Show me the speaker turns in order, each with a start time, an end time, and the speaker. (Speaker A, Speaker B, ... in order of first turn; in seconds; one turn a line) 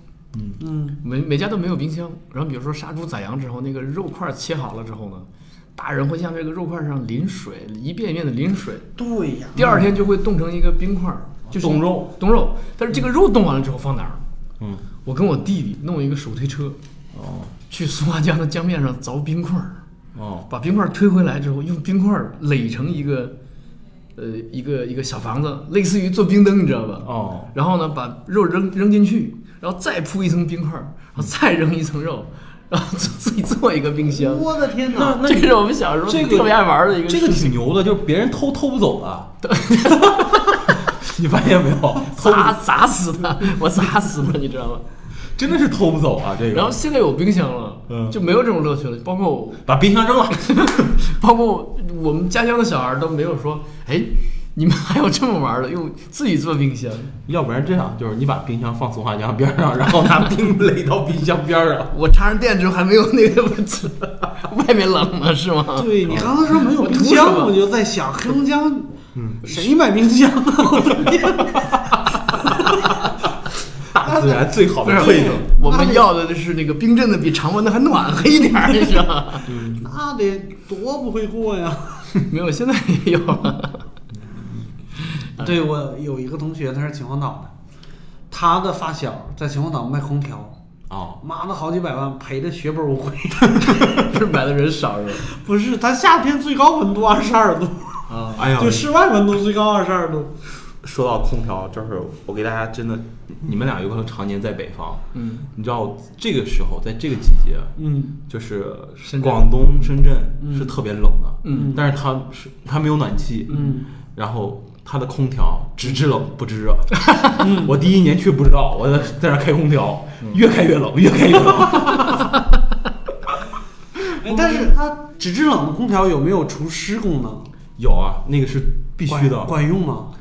Speaker A: 0.3-0.6
Speaker B: 0.6-1.0
Speaker C: 1.0-8.9
Speaker B: 9.0-9.9
Speaker C: 9.5-14.2
Speaker A: 11.5-12.1
Speaker C: 15.0-16.8
Speaker A: 17.1-17.5
Speaker C: 17.7-19.8
Speaker A: 20.1-20.5
Speaker C: 20.5-23.4
Speaker C: 24.1-34.5
Speaker A: 27.0-27.5
Speaker B: 34.1-35.2
Speaker A: 34.9-39.3
Speaker C: 35.2-37.6
Speaker C: 39.4-40.7
Speaker A: 40.7-42.6
Speaker C: 42.0-44.8
Speaker A: 45.4-46.8
Speaker C: 46.5-49.6
Speaker A: 47.9-48.1
Speaker A: 49.6-50.9
Speaker C: 50.3-57.1
Speaker A: 57.2-61.9
Speaker C: 61.9-66.2
Speaker B: 65.8-72.6
Speaker A: 66.1-66.3
Speaker C: 66.8-67.6
Speaker A: 69.1-69.5
Speaker A: 71.0-72.8
Speaker A: 73.9-75.4
Speaker B: 74.0-76.0
Speaker C: 74.8-79.5
Speaker A: 79.5-79.8
Speaker B: 79.8-82.3
Speaker C: 82.3-83.8
Speaker A: 84.2-84.7
Speaker C: 85.0-85.6
Speaker B: 85.4-87.5
Speaker B: 88.3-90.5
Speaker A: 90.9-91.2
Speaker B: 91.2-94.0
Speaker C: 93.8-95.3
Speaker B: 95.2-100.3
Speaker C: 98.1-98.6
Speaker A: 98.3-98.9
Speaker A: 100.6-122.3
Speaker C: 105.1-105.5
Speaker B: 107.8-108.1
Speaker C: 109.0-109.5
Speaker B: 110.4-110.7
Speaker C: 111.4-111.7
Speaker B: 111.5-111.8
Speaker B: 113.5-113.9
Speaker B: 117.4-117.8
Speaker B: 124.2-127.5
Speaker A: 124.2-124.6
Speaker A: 127.8-129.5
Speaker B: 129.1-130.1